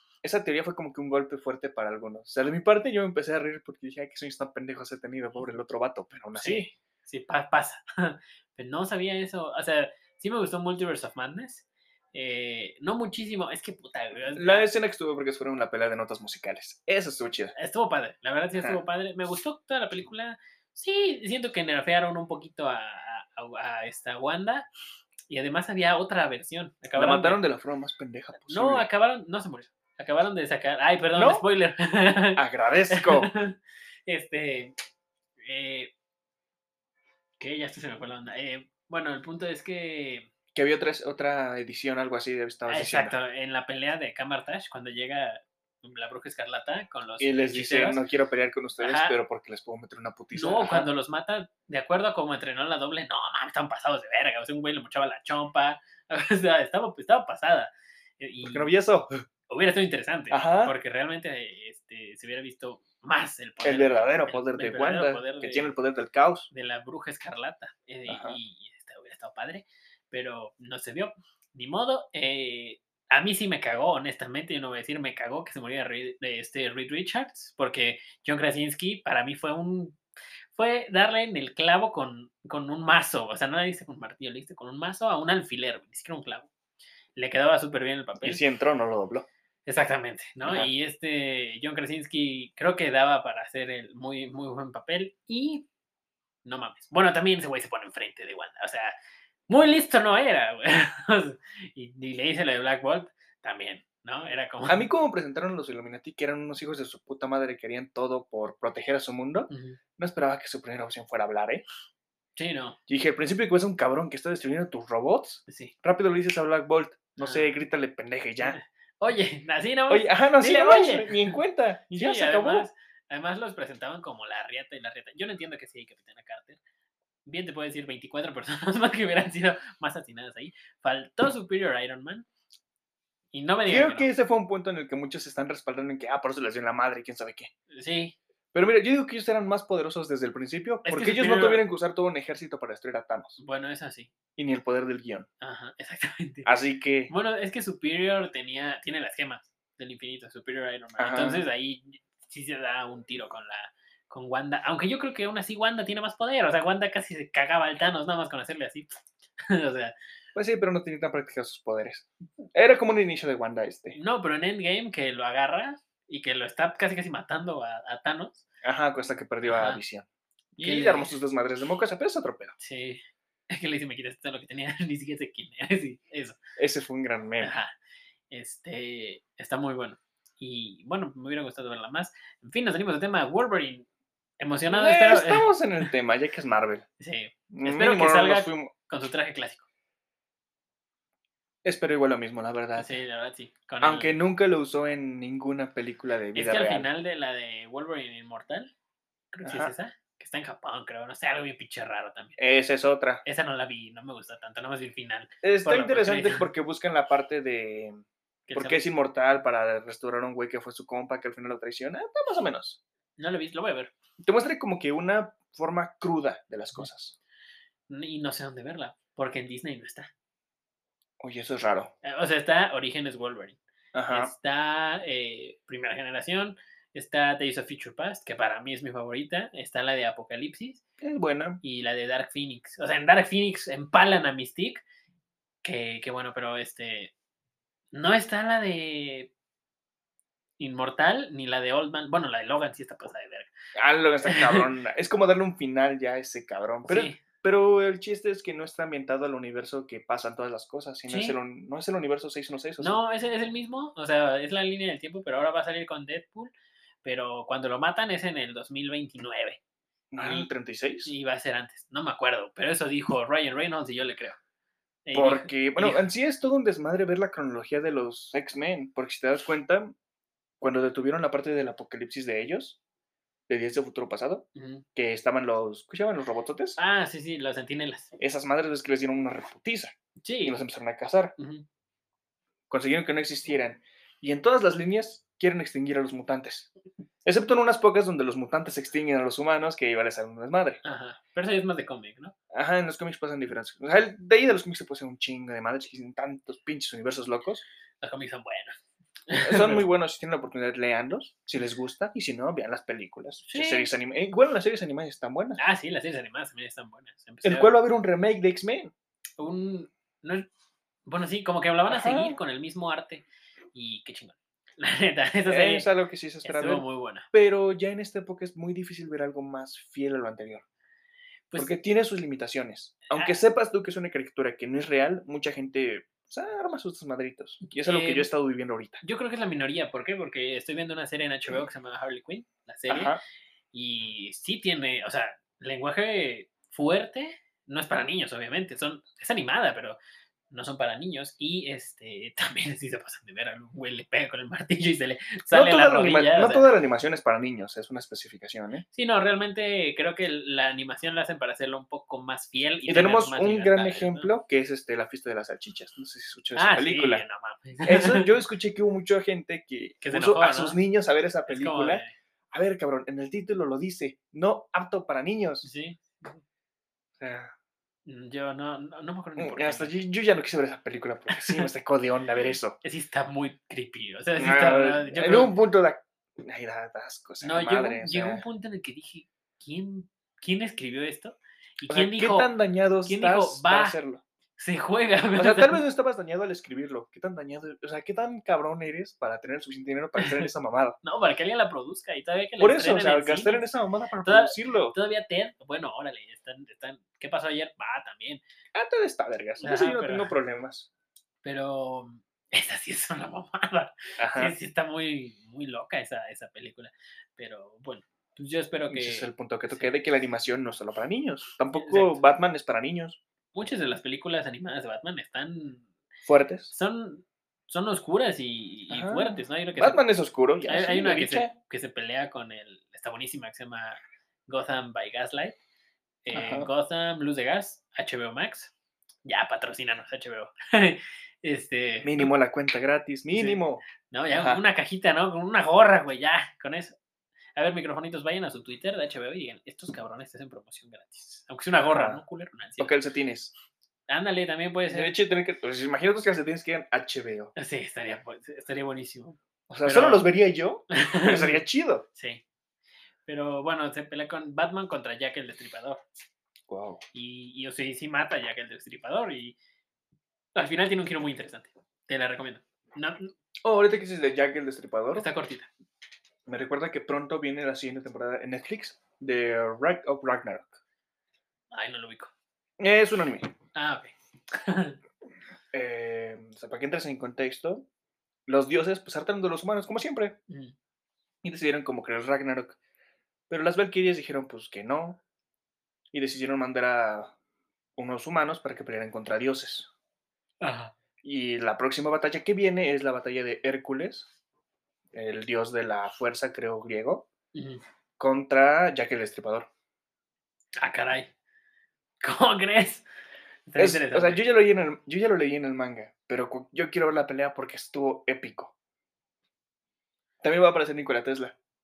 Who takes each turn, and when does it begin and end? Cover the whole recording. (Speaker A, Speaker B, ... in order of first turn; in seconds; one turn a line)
Speaker A: 0.2-6.7
Speaker B: 6.4-14.7
Speaker A: 14.3-17.5
Speaker B: 17.6-24.7
Speaker A: 18.6-18.8
Speaker B: 25.3-27.4
Speaker A: 26.9-28.9
Speaker B: 28.4-34.7
Speaker A: 31.1-31.4
Speaker A: 32.4-33.3
Speaker B: 35.4-35.9
Speaker B: 37.4-40.3
Speaker A: 40.5-43.1
Speaker B: 42.7-48.0
Speaker A: 47.2-50.9
Speaker B: 48.8-49.2
Speaker B: 50.3-58.7
Speaker A: 58.4-59.2
Speaker B: 59.5-65.7
Speaker A: 60.3-60.8
Speaker A: 63.6-66.5
Speaker B: 66.5-80.0
Speaker A: 68.1-68.4
Speaker B: 80.5-86.5
Speaker B: 87.2-88.4
Speaker A: 88.2-89.3
Speaker B: 89.7-95.7
Speaker A: 90.4-90.7
Speaker B: 96.4-99.0
Speaker B: 99.5-104.9
Speaker A: 104.7-111.6
Speaker B: 109.5-109.8
Speaker B: 112.3-112.8
Speaker A: 112.9-118.6
Speaker B: 115.5-115.7
Speaker B: 117.2-117.5
Speaker B: 118.4-121.4
Speaker A: 119.9-122.7
Speaker B: 121.9-126.6
Speaker B: 127.2-132.2
Speaker B: 133.3-134.1
Speaker A: 133.7-137.5
Speaker B: 137.7-138.1
Speaker A: 138.5-143.4
Speaker B: 140.8-141.6
Speaker B: 143.4-144.1
Speaker A: 144.4-145.3
Speaker B: 145.4-146.5
Speaker A: 146.4-147.1
Speaker B: 147.1-159.9
Speaker A: 151.0-151.4
Speaker A: 160.3-164.0
Speaker B: 163.9-168.4
Speaker A: 168.6-172.5
Speaker B: 169.4-169.8
Speaker B: 170.6-171.1
Speaker B: 172.6-176.4
Speaker A: 176.6-177.5
Speaker B: 177.4-177.7
Speaker B: 178.3-183.9
Speaker B: 184.4-185.5
Speaker A: 184.7-186.8
Speaker B: 187.0-189.6
Speaker A: 187.5-188.7
Speaker A: 191.6-192.9
Speaker B: 192.8-194.2
Speaker A: 193.8-196.9
Speaker B: 196.3-198.7
Speaker B: 199.3-202.3
Speaker A: 199.4-199.7
Speaker A: 202.4-203.2
Speaker B: 203.2-206.5
Speaker A: 205.4-212.8
Speaker B: 208.5-208.8
Speaker B: 213.2-213.9
Speaker A: 214.2-217.2
Speaker B: 217.9-220.1
Speaker A: 221.2-221.9
Speaker B: 222.0-223.6
Speaker A: 223.9-224.3
Speaker B: 224.1-230.8
Speaker A: 231.0-231.6
Speaker B: 231.6-234.8
Speaker B: 235.6-237.1
Speaker B: 237.9-239.3
Speaker B: 240.6-243.5
Speaker A: 243.8-252.9
Speaker B: 244.2-244.7
Speaker B: 246.9-247.2
Speaker B: 251.1-251.4
Speaker B: 252.8-256.5
Speaker B: 257.0-259.6
Speaker A: 260.1-261.1
Speaker B: 260.2-260.5
Speaker B: 261.0-264.4
Speaker B: 265.1-266.1
Speaker A: 265.1-269.9
Speaker A: 270.6-272.8
Speaker A: 273.5-276.8
Speaker B: 274.6-274.8
Speaker B: 276.8-278.1
Speaker A: 278.2-281.3
Speaker B: 280.2-280.6
Speaker B: 281.4-281.6
Speaker A: 282.7-286.7
Speaker A: 287.2-290.8
Speaker B: 290.8-292.3
Speaker A: 292.5-297.6
Speaker B: 298.0-298.8
Speaker B: 299.3-299.9
Speaker A: 299.4-305.6
Speaker B: 303.5-303.9
Speaker B: 305.6-307.7
Speaker A: 307.4-308.9
Speaker B: 309.4-310.5
Speaker B: 311.0-315.9
Speaker A: 311.9-312.4
Speaker A: 315.5-320.6
Speaker B: 316.4-317.3
Speaker B: 321.5-321.8
Speaker A: 321.6-329.0
Speaker B: 327.8-328.3
Speaker B: 329.0-333.1
Speaker A: 332.9-333.2
Speaker B: 333.7-340.0
Speaker B: 340.5-346.6
Speaker A: 345.5-348.8
Speaker B: 348.9-354.3
Speaker A: 352.9-357.2
Speaker B: 356.5-358.3
Speaker A: 357.8-365.7
Speaker B: 360.0-360.8
Speaker B: 361.5-362.1
Speaker B: 365.6-366.4
Speaker A: 367.2-367.5
Speaker B: 368.1-369.9
Speaker A: 369.4-372.8
Speaker B: 371.3-371.7
Speaker B: 372.8-375.5
Speaker A: 374.4-378.4
Speaker B: 377.4-382.5
Speaker A: 381.9-384.2
Speaker B: 383.0-384.0
Speaker B: 384.6-385.8
Speaker A: 385.4-391.0
Speaker B: 390.2-390.5
Speaker B: 391.0-393.6
Speaker A: 392.6-394.9
Speaker B: 394.2-398.4
Speaker A: 398.7-400.9
Speaker B: 399.6-400.3
Speaker B: 401.4-409.9
Speaker A: 404.2-404.5
Speaker A: 408.9-413.2
Speaker B: 411.7-412.2
Speaker B: 413.5-415.9
Speaker A: 416.2-416.7
Speaker B: 416.7-420.0
Speaker A: 418.9-421.5
Speaker B: 420.7-425.6
Speaker B: 426.2-428.7
Speaker A: 426.3-426.7
Speaker B: 429.2-432.3
Speaker A: 432.0-434.6
Speaker B: 433.3-437.0
Speaker B: 437.6-442.9
Speaker A: 441.9-442.2
Speaker A: 442.8-443.5
Speaker B: 444.1-445.1
Speaker A: 444.9-447.5
Speaker B: 447.6-450.3
Speaker A: 449.7-452.1
Speaker B: 450.9-451.6
Speaker B: 452.1-452.4
Speaker B: 453.2-456.0
Speaker A: 456.7-457.0
Speaker B: 457.1-459.6
Speaker B: 460.5-463.3
Speaker A: 463.6-465.3
Speaker B: 465.1-465.7
Speaker A: 466.5-470.8
Speaker B: 471.7-472.3
Speaker A: 472.8-473.5
Speaker B: 473.7-475.0
Speaker A: 475.7-477.9
Speaker A: 478.5-480.4
Speaker B: 480.5-480.7
Speaker A: 481.4-482.8
Speaker A: 483.5-485.2
Speaker A: 486.1-487.3
Speaker A: 488.0-489.9
Speaker B: 490.6-490.9
Speaker A: 491.2-494.3
Speaker A: 495.1-497.3
Speaker B: 497.5-497.8
Speaker A: 498.2-499.7
Speaker B: 500.8-501.3
Speaker B: 502.2-503.1
Speaker B: 503.7-504.4
Speaker A: 503.8-508.7
Speaker A: 510.4-511.6